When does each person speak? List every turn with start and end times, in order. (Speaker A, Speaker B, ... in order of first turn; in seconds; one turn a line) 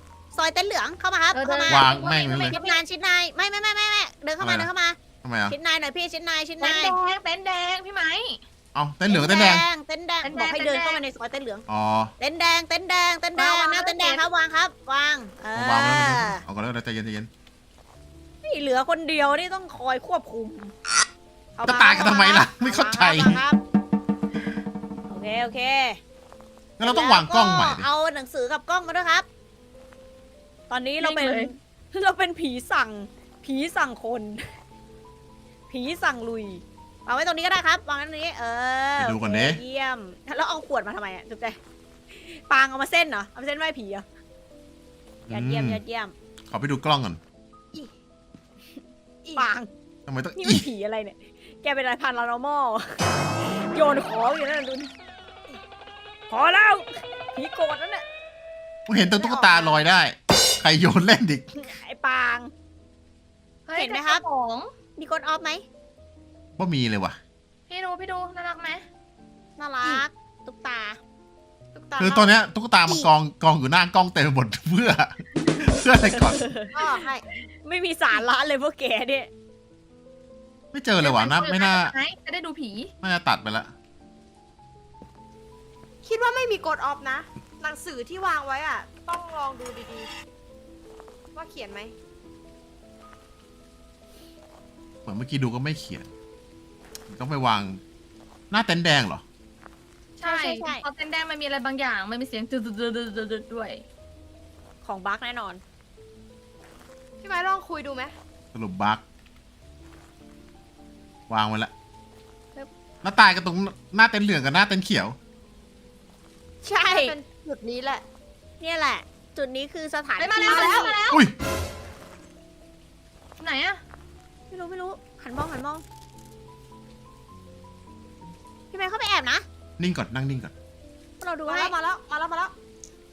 Speaker A: 0.3-6.9
Speaker B: 1.3-2.8
Speaker C: 1.7-2.5
Speaker C: 4.4-4.7
Speaker C: 5.2-5.5
Speaker B: 6.6-8.4
Speaker C: 8.7-9.7
Speaker A: 9.1-11.6
Speaker B: 10.2-11.0
Speaker C: 11.7-12.1
Speaker A: 12.2-16.4
Speaker B: 13.3-14.2
Speaker C: 15.5-17.3
Speaker A: 18.4-20.7
Speaker A: 21.6-23.6
Speaker C: 21.6-23.4
Speaker A: 25.1-26.0
Speaker C: 26.8-27.9
Speaker A: 26.8-29.2
Speaker A: 30.7-34.5
Speaker B: 31.0-31.5
Speaker A: 35.7-41.6
Speaker C: 39.0-39.6
Speaker A: 42.1-44.0
Speaker C: 45.3-45.8
Speaker A: 45.3-46.1
Speaker C: 46.5-47.2
Speaker D: 49.2-49.5
Speaker A: 49.4-49.7
Speaker C: 50.1-50.6
Speaker A: 50.4-54.9
Speaker A: 56.3-58.0
Speaker C: 58.9-61.5
Speaker D: 59.2-59.8
Speaker A: 61.5-62.5
Speaker B: 63.6-64.7
Speaker A: 63.7-64.2
Speaker A: 65.0-65.6
Speaker C: 66.6-67.2
Speaker B: 67.7-68.8
Speaker A: 69.6-71.0
Speaker D: 71.7-72.3
Speaker C: 72.0-76.5
Speaker A: 76.0-76.8
Speaker D: 76.7-77.3
Speaker A: 77.6-79.3
Speaker C: 80.7-81.9
Speaker B: 81.0-82.9
Speaker C: 83.0-83.7
Speaker D: 86.0-90.1
Speaker D: 91.3-91.9
Speaker C: 95.0-96.1
Speaker C: 97.1-97.8
Speaker C: 98.5-99.2
Speaker B: 100.2-103.8
Speaker A: 100.2-100.8
Speaker A: 104.8-105.6
Speaker D: 107.2-108.1
Speaker C: 108.5-109.0
Speaker C: 111.3-111.7
Speaker C: 113.0-115.2
Speaker A: 116.6-117.2
Speaker D: 116.7-118.0
Speaker A: 118.6-120.9
Speaker B: 120.2-121.3
Speaker D: 120.4-120.9
Speaker B: 123.4-123.8
Speaker A: 124.5-125.8
Speaker A: 128.7-129.4
Speaker C: 129.8-130.5
Speaker A: 131.2-131.7
Speaker D: 131.4-132.5